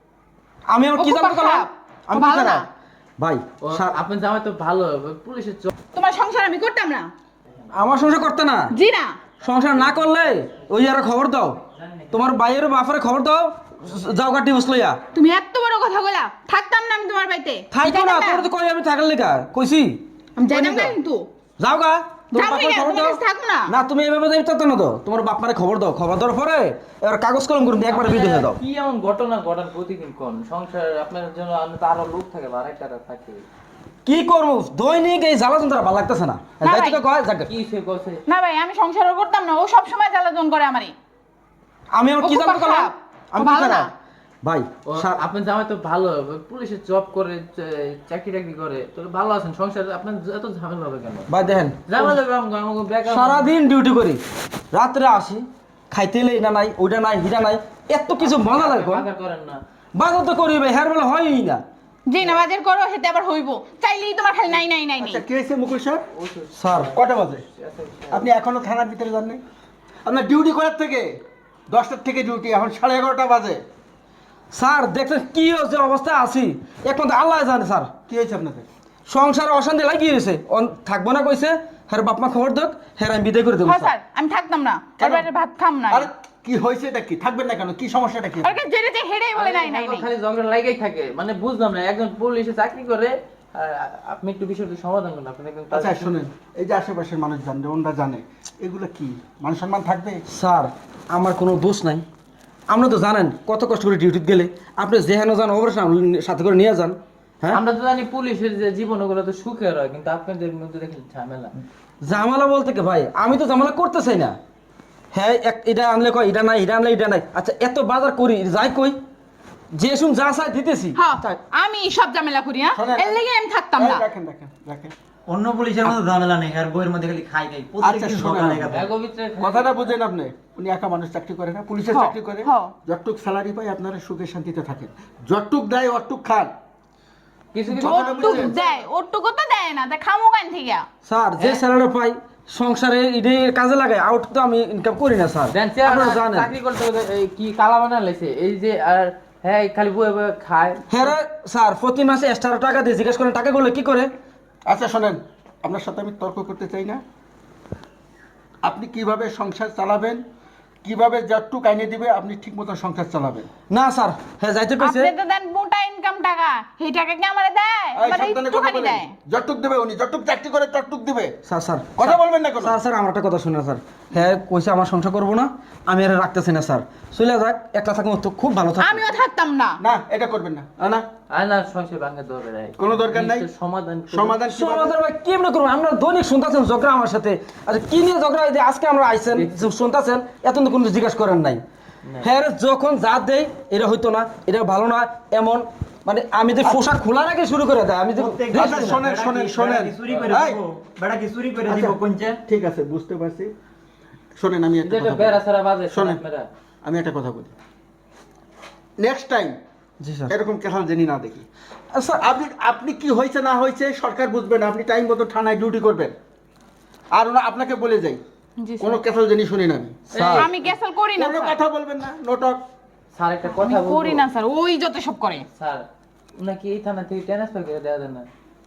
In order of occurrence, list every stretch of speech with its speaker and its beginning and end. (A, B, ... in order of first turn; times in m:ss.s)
0:00.7-0:02.6 A
0:01.0-0:02.7 B
0:03.2-0:04.0 A
0:03.6-0:05.7 C
0:05.9-0:07.1 B
0:07.7-0:08.7 A
0:08.7-0:09.2 B
0:09.4-0:11.6 A
0:12.1-0:15.0 A
0:15.1-0:18.4 B
0:17.7-0:20.0 A
0:20.4-0:21.2 B
0:21.6-0:28.6 A
0:22.3-0:23.7 B
0:27.9-0:33.4 C
0:34.0-0:37.5 A
0:36.6-0:37.0 B
0:37.5-0:38.2 C
0:38.3-0:40.9 B
0:41.9-0:43.9 A
0:42.2-0:43.9 B
0:44.4-0:45.2 A
0:44.9-0:53.5 C
0:51.3-0:52.2 A
0:53.0-0:59.0 A
0:58.2-0:59.6 C
0:59.9-1:01.6 A
1:02.1-1:05.2 B
1:05.0-1:06.0 D
1:06.1-1:07.0 C
1:06.5-1:06.9 A
1:06.9-1:07.4 D
1:07.5-1:08.3 C
1:08.1-1:09.4 D
1:10.0-1:11.1 D
1:11.7-1:13.6 D
1:14.5-1:17.9 A
1:18.1-1:18.7 D
1:19.1-1:23.9 A
1:23.6-1:26.1 B
1:25.0-1:25.3 D
1:25.9-1:28.6 D
1:28.4-1:30.1 B
1:29.3-1:36.2 C
1:35.7-1:40.2 D
1:40.3-1:42.0 A
1:42.7-1:47.6 A
1:47.5-1:51.5 C
1:52.0-1:54.4 A
1:55.1-1:59.0 A
1:59.7-2:01.0 A
2:01.0-2:04.0 B
2:02.7-2:03.2 D
2:03.8-2:04.9 D
2:05.3-2:08.9 E
2:07.8-2:08.7 D
2:08.7-2:09.9 C
2:09.4-2:16.5 D
2:11.9-2:12.7 B
2:17.5-2:18.8 C
2:17.7-2:18.6 D
2:17.7-2:20.8 B
2:21.0-2:26.5 A
2:25.5-2:31.1 C
2:30.9-2:34.1 A
2:34.6-2:37.0 D
2:38.6-2:40.2 D
2:40.8-2:43.5 D
2:43.7-2:45.1 A
2:44.8-2:49.1 B
2:47.9-2:51.3 D
2:51.4-2:59.0 A
2:52.0-2:52.8 D
2:58.8-2:59.8 B
2:59.8-3:01.0 D
3:01.3-3:04.4 C
3:02.8-3:03.5 D
3:04.1-3:04.9 D
3:04.5-3:11.6 A
3:09.3-3:09.7 C
3:12.2-3:18.6 A
3:18.2-3:22.4 E
3:18.5-3:20.6 D
3:21.6-3:23.5 D
3:24.4-3:25.4 D
3:24.8-3:26.5 C
3:25.9-3:26.2 D
3:26.8-3:27.5 D
3:29.0-3:29.6 D
3:30.0-3:30.3 A
3:30.3-3:31.4 D
3:31.9-3:32.2 A
3:32.2-3:36.1 D
3:37.1-3:38.2 D
3:38.6-3:39.0 B
3:38.8-3:40.0 D
3:40.1-3:40.6 C
3:40.1-3:40.5 A
3:40.3-3:41.6 B
3:41.2-3:42.6 D
3:43.1-3:44.2 C
3:43.5-3:45.4 B
3:45.5-3:48.3 C